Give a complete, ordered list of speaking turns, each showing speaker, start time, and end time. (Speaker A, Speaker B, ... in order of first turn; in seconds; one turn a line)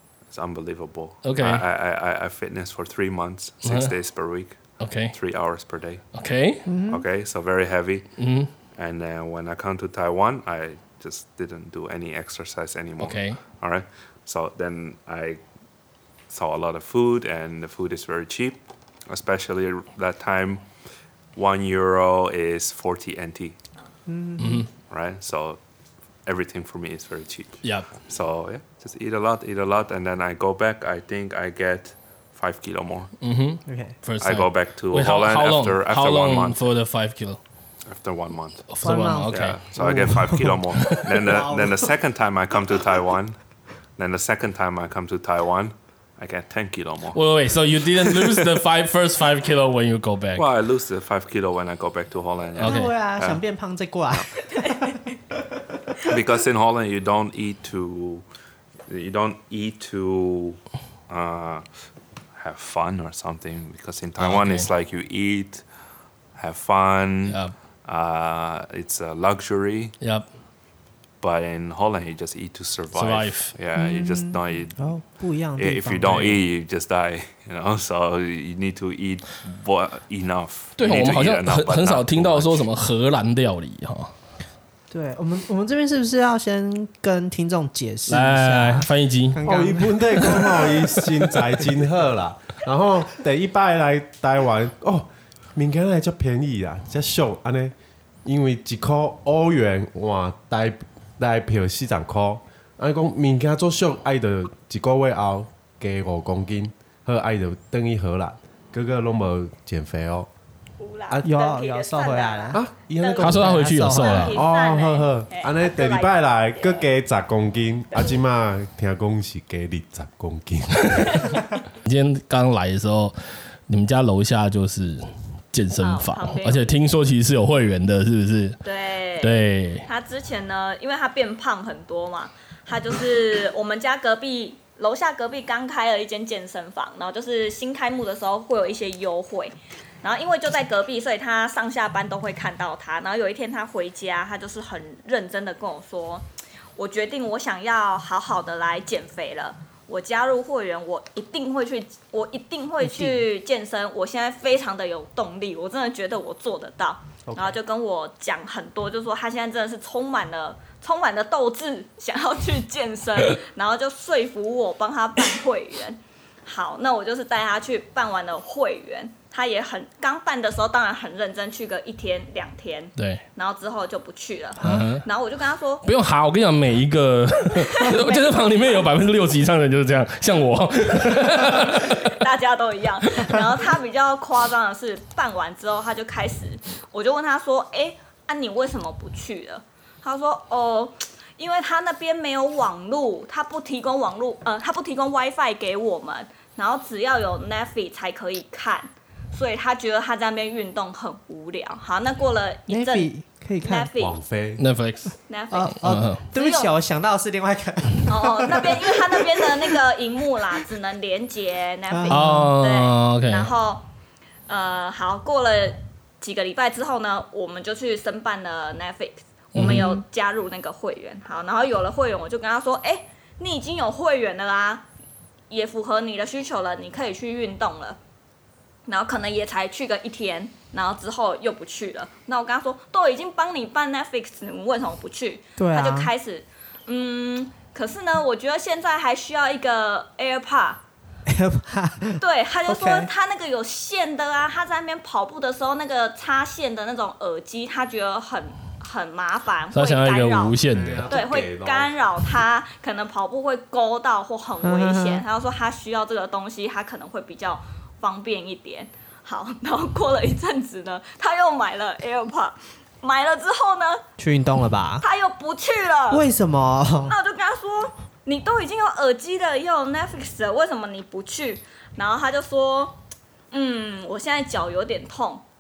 Speaker A: 0.3-6.1
Speaker B: 1.2-1.6
Speaker B: 3.6-3.9
Speaker B: 4.8-5.2
Speaker B: 6.1-6.7
Speaker C: 6.7-7.0
Speaker A: 6.8-8.2
Speaker B: 8.2-8.5
Speaker A: 8.8-15.4
Speaker B: 13.0-13.4
Speaker A: 16.3-20.6
Speaker A: 21.4-23.6
Speaker C: 24.1-24.7
Speaker B: 24.4-24.7
Speaker A: 24.9-25.6
Speaker A: 26.3-33.1
Speaker B: 27.6-27.9
Speaker B: 33.2-37.4
Speaker C: 33.7-34.0
Speaker A: 34.2-36.6
Speaker A: 37.9-38.6
Speaker B: 38.7-39.7
Speaker C: 38.8-41.9
Speaker A: 39.3-43.4
Speaker B: 40.8-41.0
Speaker A: 44.0-47.3
Speaker B: 47.1-50.4
Speaker A: 48.0-48.4
Speaker A: 50.4-53.4
Speaker B: 52.6-53.0
Speaker C: 52.6-55.0
Speaker D: 54.5-55.1
Speaker A: 56.0-58.2
Speaker A: 58.9-61.7
Speaker A: 62.3-65.7
Speaker B: 64.2-64.7
Speaker A: 66.3-70.0
Speaker B: 67.3-67.5
Speaker B: 70.0-70.3
Speaker A: 71.2-75.0
Speaker B: 72.9-73.6
Speaker C: 73.8-76.3
Speaker A: 75.6-82.7
Speaker B: 80.8-84.1
Speaker C: 84.9-90.8
Speaker B: 88.1-89.4
Speaker E: 89.4-97.7
Speaker E: 98.2-110.3
Speaker D: 110.8-116.8
Speaker C: 111.2-112.6
Speaker E: 112.5-113.8
Speaker B: 113.2-114.4
Speaker C: 113.2-114.3
Speaker E: 114.3-121.3
Speaker B: 121.8-123.2
Speaker B: 123.7-128.6
Speaker D: 125.8-126.7
Speaker D: 128.6-146.2
Speaker B: 129.2-129.9
Speaker D: 146.8-175.8
Speaker C: 152.8-153.2
Speaker C: 157.3-157.6
Speaker B: 173.0-173.2
Speaker B: 174.6-175.1
Speaker B: 175.8-182.2
Speaker D: 177.7-178.9
Speaker D: 181.6-203.1
Speaker C: 202.7-203.9
Speaker D: 203.6-204.2
Speaker E: 204.0-204.6
Speaker B: 204.6-205.2
Speaker D: 205.3-206.7
Speaker C: 205.5-209.5
Speaker B: 205.8-206.2
Speaker D: 208.1-213.9
Speaker C: 211.9-212.5
Speaker B: 212.1-213.5
Speaker D: 214.5-224.9
Speaker B: 219.5-220.0
Speaker D: 225.5-228.0
Speaker D: 228.9-240.8
Speaker C: 235.6-236.1
Speaker C: 241.3-243.1
Speaker D: 242.2-264.0
Speaker B: 249.7-251.1
Speaker E: 250.7-252.0
Speaker C: 254.6-255.2
Speaker C: 264.2-265.1
Speaker D: 265.0-266.2
Speaker C: 266.1-267.1
Speaker D: 267.1-273.0
Speaker D: 273.5-275.4